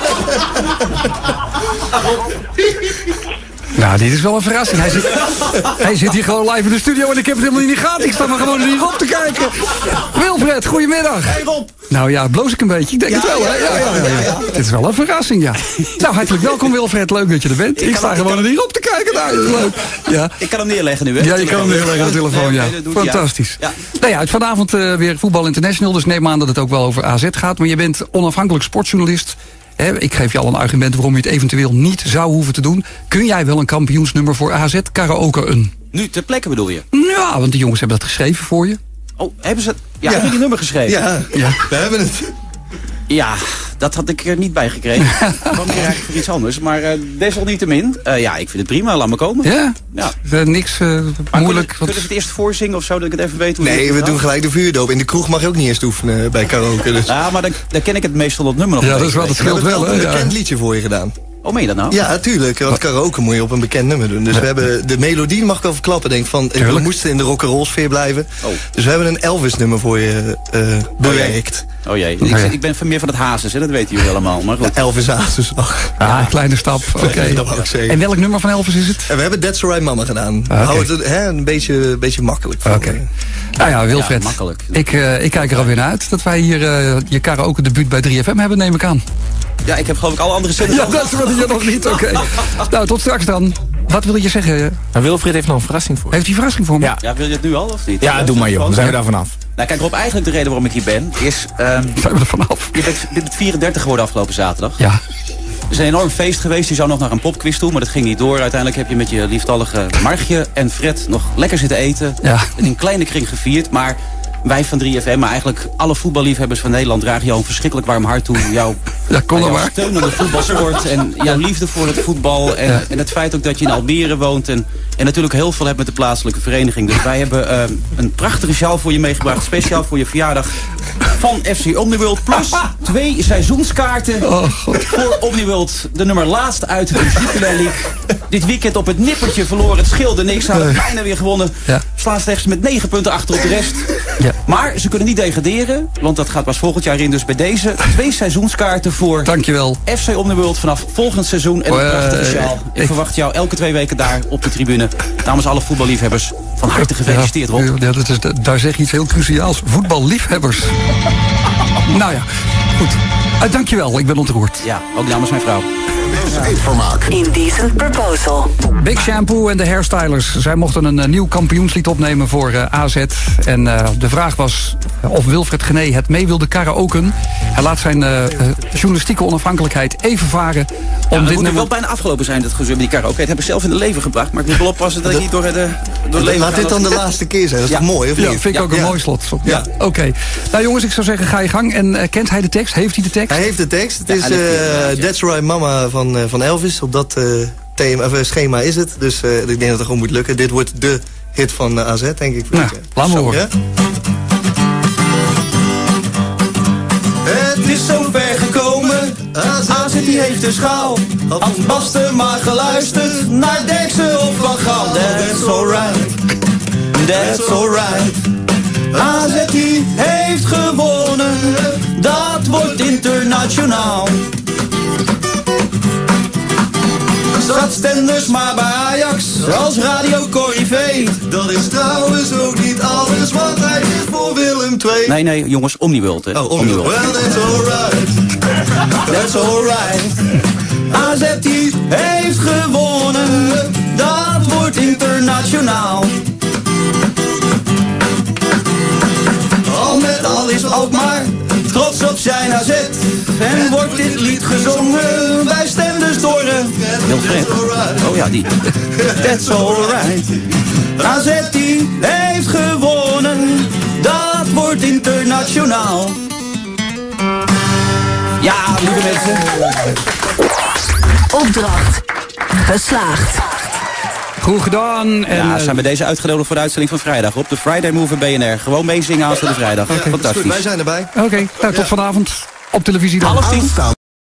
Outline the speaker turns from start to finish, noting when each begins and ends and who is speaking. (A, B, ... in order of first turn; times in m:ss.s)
0:03.7-0:20.4 A
0:11.2-0:11.7 B
0:13.1-0:14.5 B
0:17.8-0:18.4 B
0:20.4-0:23.8 B
0:21.2-0:35.7 A
0:35.9-0:36.8 B
0:36.9-0:38.8 A
0:39.2-0:41.0 B
0:40.0-0:42.3 C
0:41.3-0:41.6 A
0:43.1-0:50.1 B
0:45.2-0:45.5 A
0:49.4-0:52.0 A
0:51.3-0:54.2 B
0:53.6-0:57.2 C
0:57.0-0:59.6 B
0:58.8-1:00.3 A
0:59.4-1:01.1 C
1:01.4-1:02.0 B
1:01.9-1:11.6 C
1:06.6-1:06.9 A
1:11.0-1:14.7 B
1:12.2-1:12.5 A
1:14.6-1:16.0 C
1:16.0-1:19.1 A
1:16.0-1:16.3 B
1:17.0-1:17.7 B
1:17.0-1:18.0 C
1:19.0-1:23.0 C
1:20.5-1:20.9 A
1:22.6-1:23.0 A
1:23.6-1:29.0 A
1:23.7-1:25.7 B
1:29.6-1:32.0 B
1:30.6-1:34.8 A
1:34.9-1:36.2 D
1:36.1-1:36.9 A
1:37.0-1:39.0 B
1:38.0-1:39.3 D
1:39.6-1:42.0 B
1:42.0-1:42.8 A
1:42.7-1:44.8 B
1:45.7-1:58.8 B
1:52.2-1:52.5 A
1:59.1-1:59.7 A
1:59.3-2:29.3 B
2:14.2-2:14.9 A
2:29.2-2:29.8 A
2:29.8-2:37.7 B
2:31.7-2:32.9 A
2:37.0-2:40.8 A
2:41.8-2:44.6 A
2:44.6-2:45.7 B
2:46.3-2:47.1 D
2:47.1-2:48.5 E
2:48.8-3:01.7 A
3:01.1-3:07.1 B
3:06.2-3:09.7 C
3:08.2-3:13.4 A
3:13.3-3:23.5 C
3:14.1-3:15.1 B
3:22.5-3:23.4 A
3:27.2-3:28.1 C
3:27.3-3:36.2 B
3:29.0-3:30.4 C
3:31.3-3:33.3 C
3:34.5-3:36.1 C
3:36.9-3:38.2 B
3:37.1-3:38.1 C
3:38.9-3:44.2 B
3:47.4-3:51.2 B
3:51.2-3:55.2 C
3:55.0-3:57.1 B
3:56.3-3:58.2 C
3:59.0-4:06.2 B
4:09.6-4:11.0 C
4:09.7-4:20.4 B
4:13.5-4:14.7 C
4:16.8-4:19.9 C
4:21.0-4:26.2 B
4:28.4-4:29.7 B
4:31.3-4:32.0 E
4:32.5-4:33.6 E
4:34.4-4:35.8 A
4:35.3-4:40.6 B
4:39.9-4:41.9 C
4:41.1-4:43.7 A
4:43.2-4:43.8 B